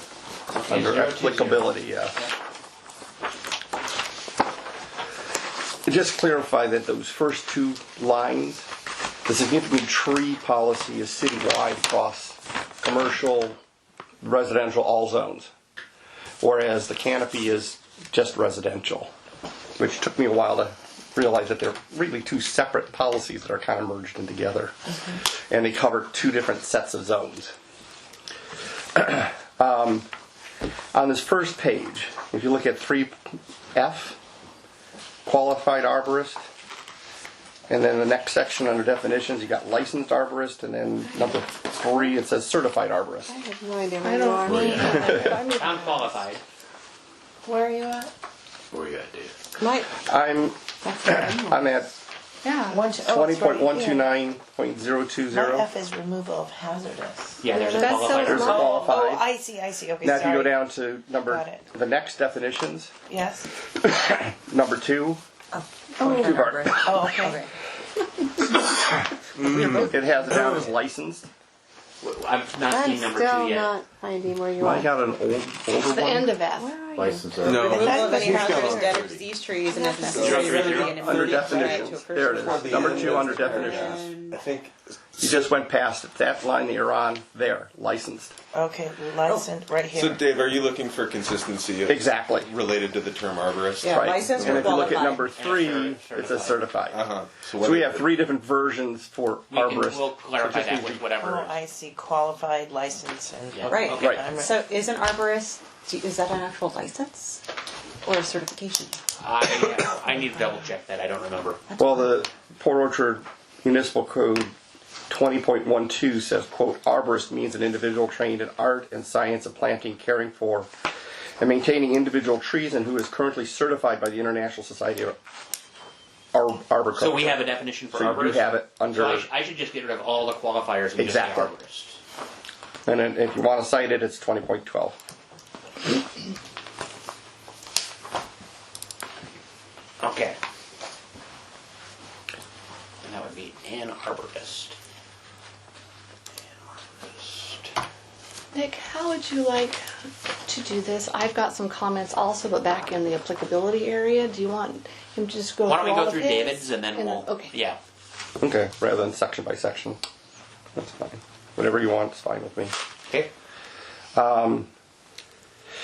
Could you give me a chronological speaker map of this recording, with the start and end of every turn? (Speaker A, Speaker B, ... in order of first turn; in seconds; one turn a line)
Speaker A: 0.5-2.2
Speaker B: 0.5-2.3
Speaker A: 5.8-8.6
Speaker A: 9.2-13.6
Speaker A: 14.2-15.5
Speaker A: 16.4-19.1
Speaker A: 19.8-27.5
Speaker A: 28.9-30.1
Speaker A: 30.9-33.2
Speaker A: 33.7-34.2
Speaker A: 35.2-36.4
Speaker A: 37.7-43.3
Speaker C: 43.3-44.7
Speaker D: 44.0-46.2
Speaker E: 44.5-45.2
Speaker B: 45.5-46.4
Speaker F: 47.4-48.1
Speaker E: 48.7-49.3
Speaker C: 49.6-49.9
Speaker A: 50.0-51.9
Speaker C: 51.0-51.3
Speaker D: 52.4-52.8
Speaker F: 52.7-54.1
Speaker A: 53.0-55.7
Speaker F: 55.3-60.6
Speaker B: 57.4-58.7
Speaker G: 57.7-58.6
Speaker A: 58.1-59.3
Speaker A: 60.0-62.9
Speaker F: 61.2-61.6
Speaker F: 63.1-63.5
Speaker A: 63.8-65.2
Speaker G: 66.0-67.3
Speaker A: 66.0-67.1
Speaker F: 66.8-67.4
Speaker H: 69.4-69.8
Speaker A: 69.7-71.3
Speaker B: 72.0-73.8
Speaker C: 72.7-74.9
Speaker A: 74.6-76.4
Speaker D: 75.7-76.8
Speaker C: 76.5-78.9
Speaker E: 76.9-77.7
Speaker H: 77.4-79.2
Speaker G: 77.5-84.4
Speaker F: 77.8-78.8
Speaker C: 79.7-80.1
Speaker H: 79.9-85.4
Speaker A: 80.1-84.0
Speaker B: 80.5-80.9
Speaker C: 83.4-84.1
Speaker A: 85.2-88.3
Speaker F: 88.5-90.3
Speaker H: 89.9-95.2
Speaker A: 91.9-92.5
Speaker G: 93.8-95.3
Speaker A: 93.8-97.0
Speaker B: 95.1-96.7
Speaker H: 96.9-98.1
Speaker A: 97.6-101.0
Speaker B: 99.5-101.5
Speaker F: 101.2-104.6
Speaker B: 103.5-104.2
Speaker G: 103.7-107.4
Speaker A: 104.0-104.3
Speaker G: 108.0-109.0
Speaker B: 109.2-111.6
Speaker A: 111.8-114.5
Speaker A: 115.1-120.7
Speaker A: 121.4-125.2
Speaker A: 126.3-129.3
Speaker B: 127.0-132.0
Speaker A: 130.9-131.5
Speaker A: 132.8-135.0
Speaker B: 140.0-140.4
Speaker B: 143.0-144.8
Speaker B: 146.4-147.7
Speaker D: 148.5-149.8
Speaker D: 150.5-157.5
Speaker B: 155.6-157.8
Speaker A: 158.4-160.0
Speaker A: 160.8-162.7
Speaker A: 164.1-164.7